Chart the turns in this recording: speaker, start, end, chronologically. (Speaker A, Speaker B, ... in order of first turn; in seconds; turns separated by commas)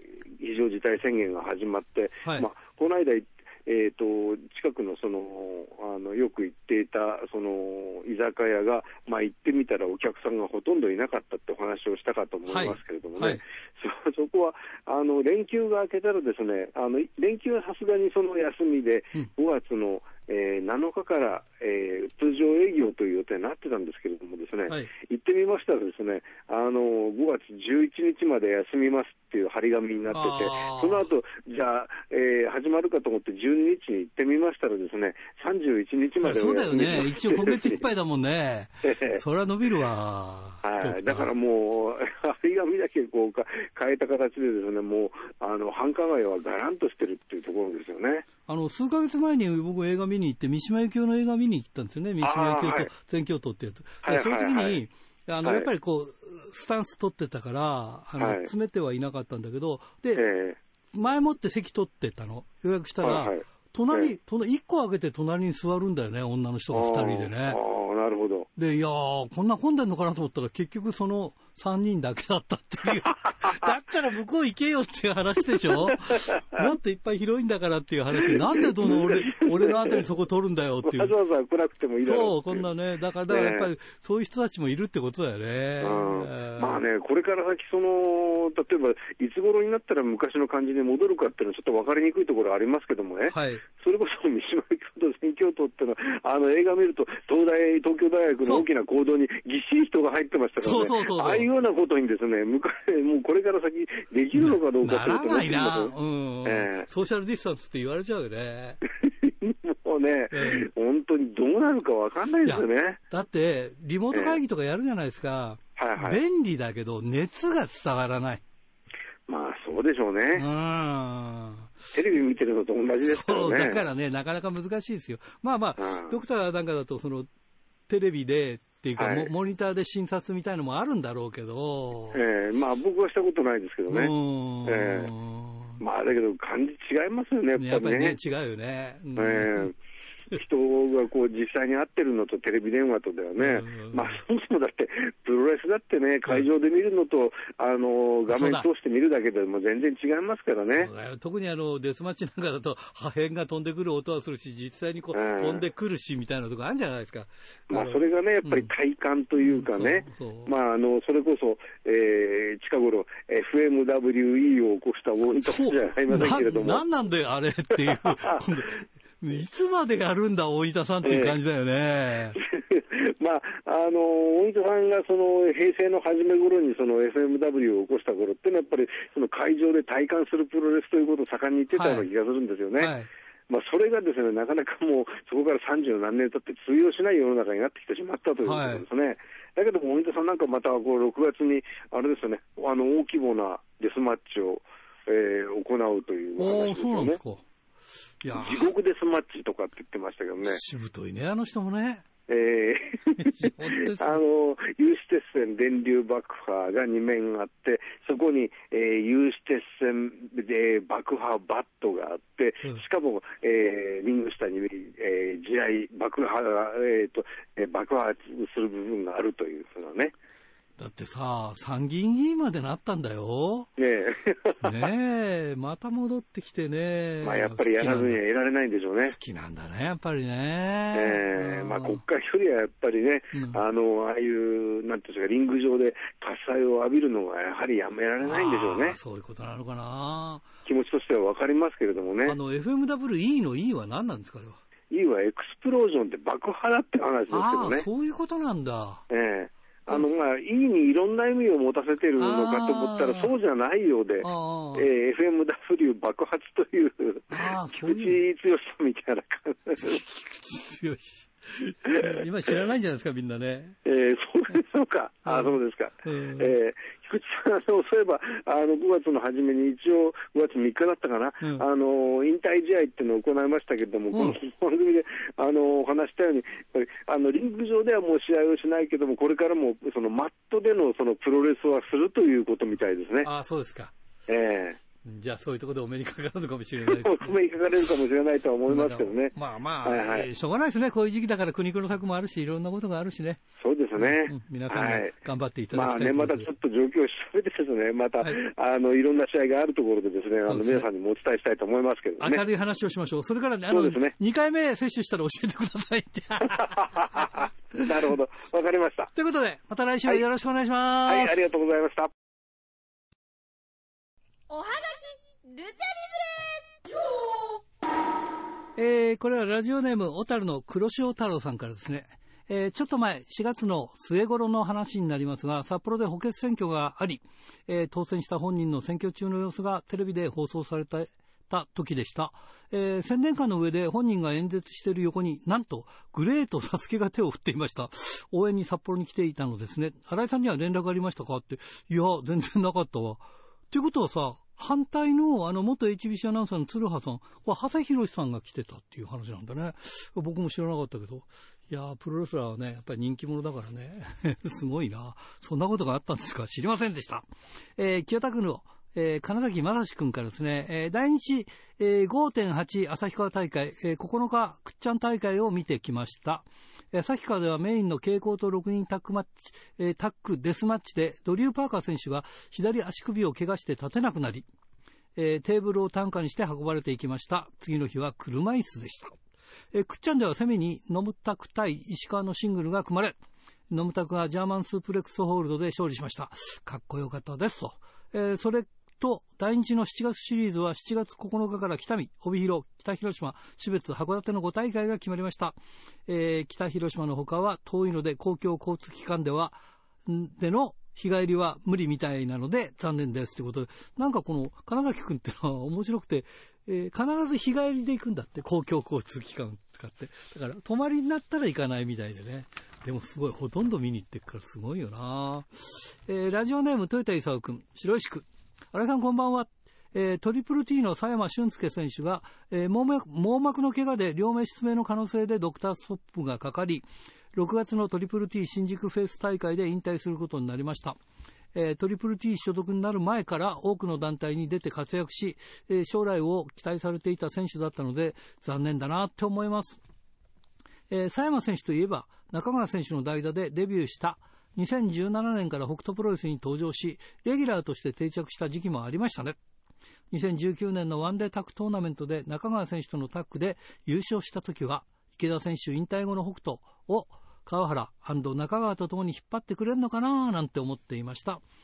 Speaker A: 0.4-37.8, Speaker B: 12.5-13.4, Speaker B: 30.1-31.1, Speaker B: 36.2-41.3, Speaker A: 38.8-39.2, Speaker A: 40.6-48.3, Speaker B: 48.5-60.2, Speaker A: 52.2-52.9, Speaker A: 54.0-54.8, Speaker A: 55.4-55.7, Speaker A: 58.2-58.5, Speaker A: 60.2-60.6, Speaker B: 60.9-67.6, Speaker A: 63.0-64.1, Speaker A: 66.7-68.5, Speaker B: 68.6-81.1, Speaker A: 73.3-73.7, Speaker A: 75.6-76.7, Speaker A: 78.2-80.0, Speaker A: 80.8-82.7, Speaker B: 82.0-86.8, Speaker A: 83.3-83.7, Speaker A: 85.8-106.9, Speaker B: 93.3-93.6, Speaker B: 100.6-101.5, Speaker B: 104.3-108.8, Speaker A: 109.0-113.0, Speaker B: 110.3-110.7, Speaker B: 112.5-118.4, Speaker A: 114.1-114.4, Speaker A: 115.8-116.2, Speaker A: 119.3-120.5, Speaker B: 120.3-121.7, Speaker A: 121.9-123.9, Speaker B: 123.1-127.3, Speaker A: 125.8-126.2, Speaker B: 127.9-132.2, Speaker A: 129.0-129.3, Speaker A: 132.1-134.1, Speaker B: 133.9-135.8, Speaker A: 134.7-135.1, Speaker A: 135.8-138.2, Speaker B: 137.6-139.7, Speaker A: 139.2-139.8, Speaker A: 140.3-150.9, Speaker B: 143.4-144.2, Speaker B: 148.3-148.7, Speaker B: 150.7-158.7, Speaker A: 155.1-155.6, Speaker A: 157.7-166.8, Speaker B: 159.4-160.5, Speaker B: 165.4-172.4, Speaker A: 167.9-168.4, Speaker A: 171.0-171.4, Speaker A: 172.4-182.9, Speaker B: 181.8-182.1, Speaker B: 182.8-183.1, Speaker A: 183.5-197.2, Speaker B: 188.4-188.8, Speaker B: 196.4-197.4, Speaker B: 198.2-198.7, Speaker A: 198.3-200.6, Speaker B: 200.4-202.1, Speaker A: 202.3-220.1, Speaker B: 203.2-204.2, Speaker B: 220.8-223.7, Speaker A: 223.8-224.9, Speaker B: 224.6-228.2, Speaker A: 227.2-229.2, Speaker B: 229.0-232.0, Speaker A: 230.9-239.0, Speaker B: 233.3-233.6, Speaker B: 238.2-240.5, Speaker A: 240.7-242.4, Speaker B: 242.2-244.6, Speaker A: 244.9-247.9, Speaker B: 247.3-249.0, Speaker A: 249.1-260.0, Speaker B: 252.2-253.3, Speaker B: 254.2-254.9, Speaker B: 257.3-258.2, Speaker B: 259.8-263.8, Speaker A: 261.9-262.2, Speaker A: 263.9-283.3, Speaker B: 265.3-266.6, Speaker B: 274.1-274.4, Speaker B: 283.2-283.9, Speaker A: 284.3-284.8, Speaker B: 285.0-287.9, Speaker A: 286.9-290.3, Speaker B: 288.7-293.4, Speaker A: 293.6-295.1, Speaker B: 294.0-296.5, Speaker A: 295.7-302.4, Speaker B: 300.4-300.9, Speaker B: 302.2-308.0, Speaker A: 303.7-304.2, Speaker A: 306.4-309.1, Speaker B: 309.1-311.4, Speaker A: 311.1-312.1, Speaker C: 314.5-316.6, Speaker B: 318.8-374.5, Speaker B: 375.2-379.2, Speaker B: 379.7-383.2, Speaker B: 383.7-395.6, Speaker B: 396.1-431.0, Speaker B: 431.5-439.8, Speaker B: 440.9-449.4, Speaker B: 450.1-461.4